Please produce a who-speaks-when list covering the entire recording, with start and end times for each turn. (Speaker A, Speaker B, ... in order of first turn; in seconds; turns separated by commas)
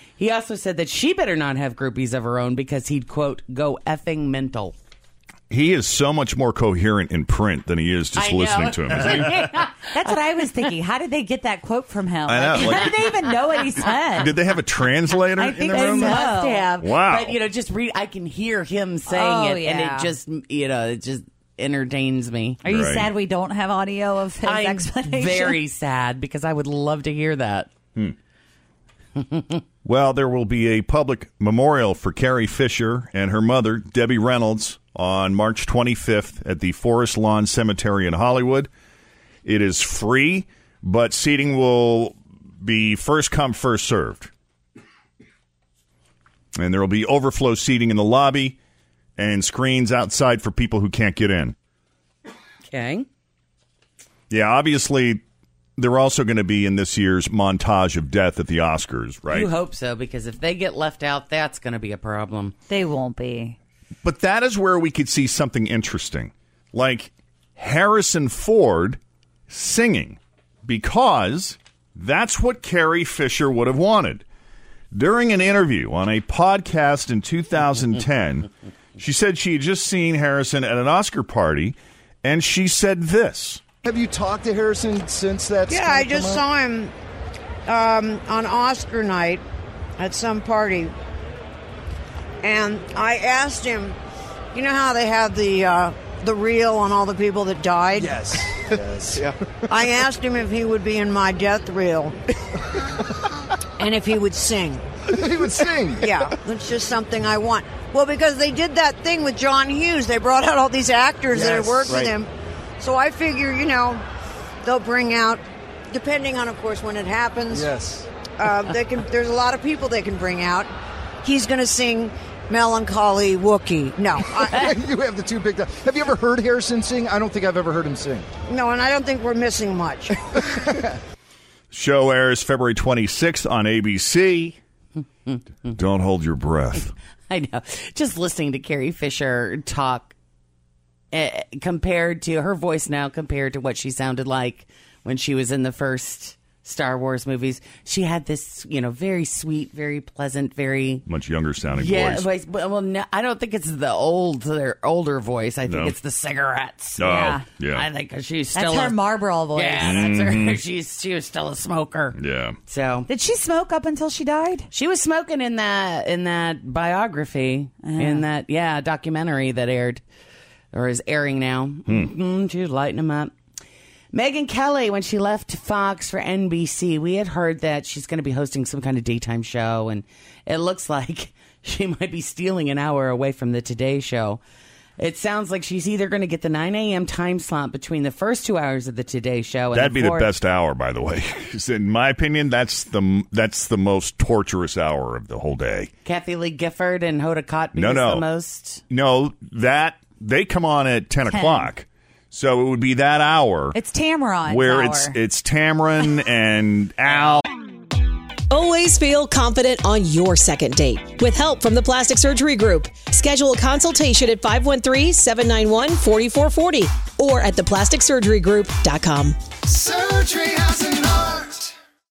Speaker A: 0.2-4.7, Speaker B: 5.5-9.5, Speaker A: 8.2-10.5, Speaker C: 9.8-14.6, Speaker B: 12.2-13.1, Speaker B: 14.1-17.4, Speaker C: 15.1-16.7, Speaker A: 15.7-22.6, Speaker C: 19.1-20.1, Speaker C: 22.6-25.6, Speaker B: 22.7-23.1, Speaker A: 24.4-27.7, Speaker A: 29.2-29.6, Speaker B: 29.8-38.7, Speaker B: 39.4-44.3, Speaker B: 46.5-48.6, Speaker B: 49.2-51.5, Speaker A: 52.7-53.0, Speaker B: 54.3-55.2, Speaker B: 55.8-59.5, Speaker A: 59.3-62.5, Speaker C: 62.7-63.6, Speaker B: 64.0-74.2, Speaker B: 74.9-83.6, Speaker D: 83.8-86.4, Speaker E: 85.7-86.9, Speaker E: 87.7-89.4, Speaker E: 90.0-90.9, Speaker E: 92.4-94.0, Speaker E: 94.5-98.2, Speaker D: 98.0-99.8, Speaker E: 99.7-102.2, Speaker E: 103.8-104.8, Speaker D: 105.1-106.2, Speaker E: 106.0-114.0, Speaker D: 111.3-112.1, Speaker E: 114.6-117.7, Speaker D: 117.5-118.1, Speaker E: 118.4-120.7, Speaker E: 121.2-124.7, Speaker D: 124.5-128.3, Speaker E: 128.5-130.2, Speaker D: 130.4-130.9, Speaker B: 131.7-134.6, Speaker A: 135.3-135.8, Speaker B: 135.7-136.9, Speaker A: 137.3-140.1, Speaker A: 141.1-151.0, Speaker B: 151.1-152.2, Speaker A: 151.7-159.0, Speaker B: 155.7-155.9, Speaker B: 157.0-157.8, Speaker C: 157.1-157.4, Speaker C: 158.5-160.1, Speaker A: 159.5-163.1, Speaker B: 159.8-160.6, Speaker B: 162.1-162.6, Speaker C: 163.1-164.7, Speaker A: 164.7-170.0, Speaker C: 167.8-168.2, Speaker A: 170.7-173.3, Speaker B: 171.9-172.1, Speaker A: 174.1-184.4, Speaker A: 185.0-190.3, Speaker B: 189.7-195.9, Speaker A: 196.0-198.8, Speaker B: 197.7-198.2, Speaker B: 198.9-203.8, Speaker C: 201.2-201.7, Speaker C: 203.7-205.2, Speaker B: 204.4-207.4, Speaker F: 208.5-219.4, Speaker D: 219.7-221.7